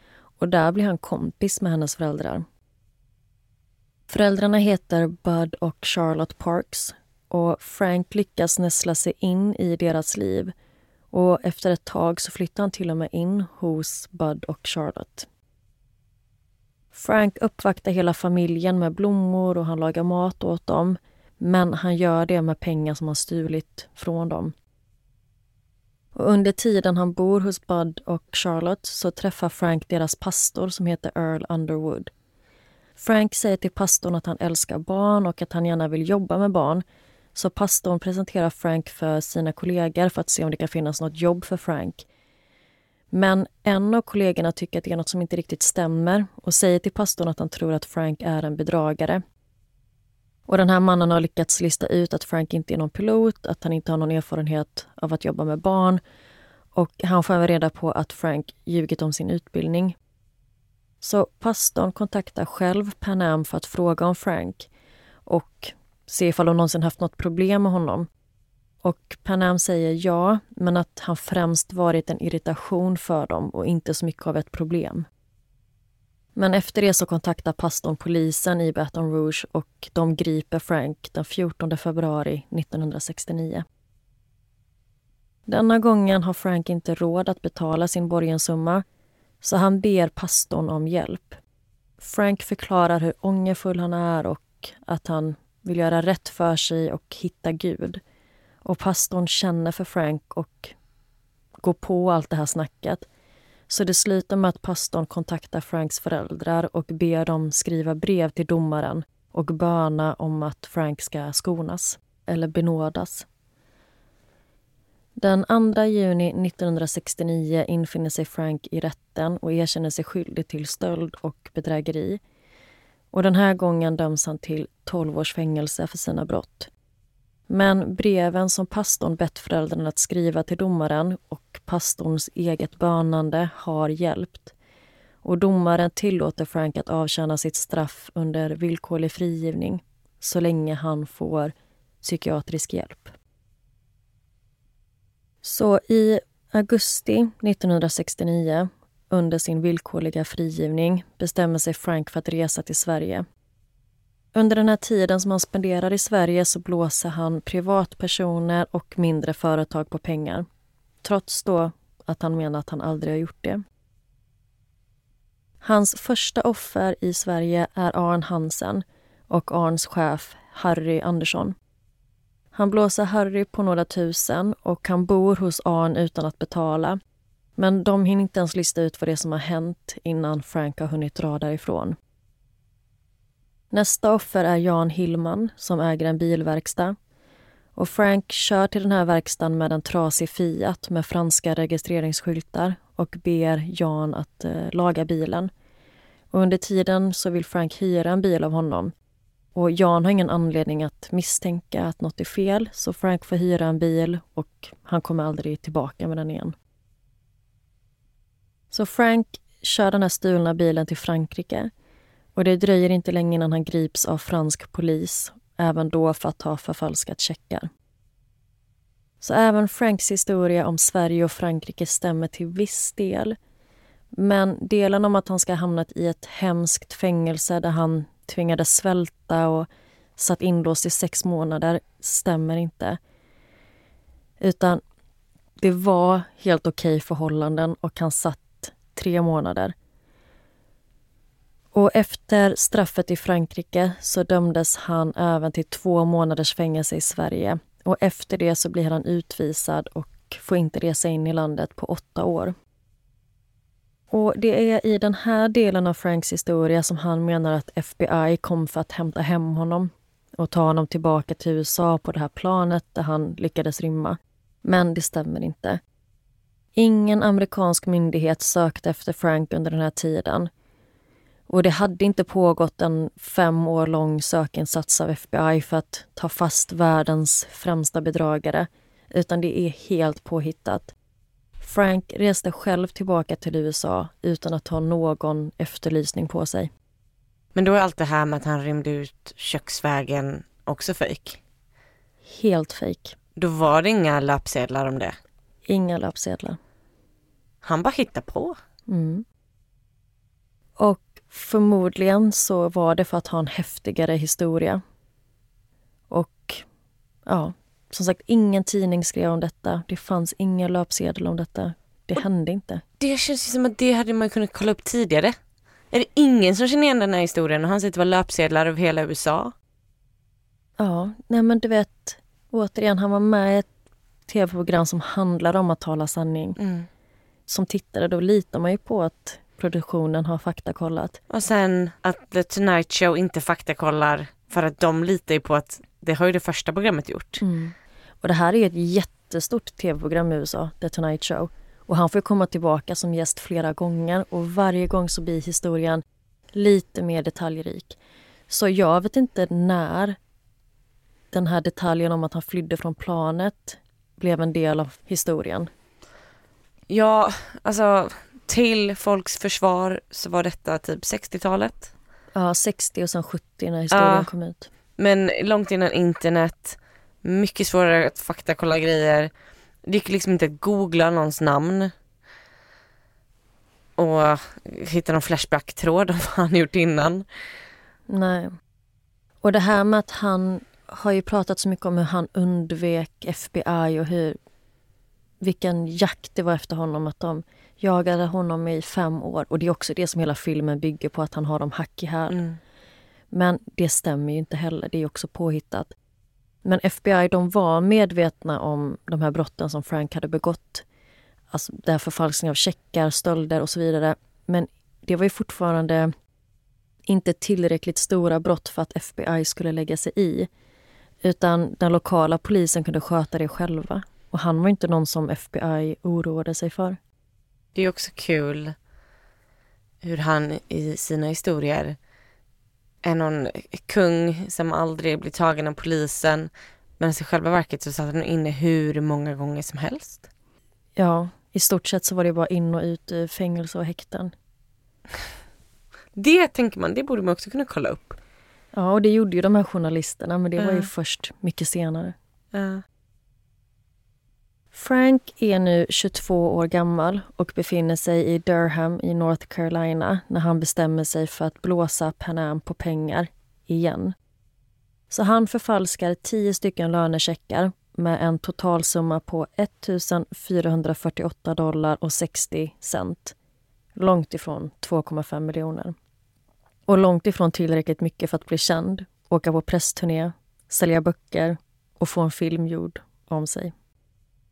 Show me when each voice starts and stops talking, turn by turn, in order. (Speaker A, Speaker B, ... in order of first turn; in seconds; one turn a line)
Speaker A: 0.4-2.5
Speaker A: 4.1-10.5
Speaker A: 11.1-15.3
Speaker A: 16.9-24.5
Speaker A: 26.1-32.1
Speaker A: 33.0-36.8
Speaker A: 37.4-42.1
Speaker A: 43.1-49.2
Speaker A: 50.5-56.0
Speaker A: 56.8-60.0
Speaker A: 61.0-64.7
Speaker A: 65.3-68.1
Speaker A: 68.8-75.1
Speaker A: 76.4-83.7
Speaker A: 85.5-88.8
Speaker A: 89.4-91.4
Speaker A: 92.0-98.0
Speaker A: 98.6-100.8
Speaker A: 101.6-103.1
Speaker A: 103.7-113.3
Speaker A: 115.2-122.2
Speaker A: 123.1-126.7
Speaker A: 127.5-134.5
Speaker A: 135.2-143.2
Speaker A: 145.4-153.3
Speaker A: 154.3-160.5
Speaker A: 161.0-163.6
Speaker A: 165.6-171.6
Speaker A: 172.5-177.0
Speaker A: 177.6-182.0
Speaker A: 183.7-187.0
Speaker A: 187.8-195.5
Speaker A: 196.3-198.9
Speaker A: 199.6-206.6
Speaker A: 208.7-211.7
Speaker A: 212.4-217.7
Speaker A: 219.2-223.4
Speaker A: 224.1-233.0
Speaker A: 234.4-234.8
Speaker A: 235.6-239.8
Speaker A: 241.7-252.6
Speaker A: 254.1-265.8
Speaker A: 266.8-270.5
Speaker A: 271.5-280.9
Speaker A: 281.6-286.7
Speaker B: 287.6-291.4
Speaker A: 292.2-293.2
Speaker B: 293.4-295.2
Speaker A: 295.7-296.6
Speaker B: 297.6-298.6
Speaker A: 298.9-299.3
Speaker A: 300.8-304.8
Speaker A: 306.1-306.6
Speaker A: 307.3-312.8
Speaker B: 313.0-315.4
Speaker B: 315.9-319.5
Speaker A: 320.8-323.7
Speaker A: 324.3-326.6
Speaker B: 326.6-326.9
Speaker A: 327.5-331.2
Speaker B: 331.3-337.4
Speaker A: 337.4-346.0
Speaker A: 346.5-348.0
Speaker A: 348.5-350.2
Speaker A: 351.3-355.7
Speaker B: 356.9-361.9
Speaker A: 362.4-364.7
Speaker B: 363.9-364.3
Speaker B: 365.0-369.3
Speaker B: 369.9-371.9
Speaker B: 374.0-377.3
Speaker A: 378.1-378.6
Speaker A: 379.4-384.4
Speaker A: 385.4-392.4
Speaker B: 392.3-392.6
Speaker A: 393.3-395.9
Speaker A: 396.6-400.9
Speaker A: 401.5-406.1
Speaker A: 407.1-410.5
Speaker A: 411.2-417.0
Speaker B: 417.8-418.8
Speaker B: 420.0-422.0
Speaker B: 423.0-430.3
Speaker A: 431.0-434.3
Speaker B: 436.2-438.2
Speaker A: 438.7-442.2
Speaker B: 440.6-440.9
Speaker B: 442.5-442.8
Speaker A: 444.7-454.2
Speaker A: 455.1-463.4
Speaker A: 464.0-465.9
Speaker A: 466.9-473.7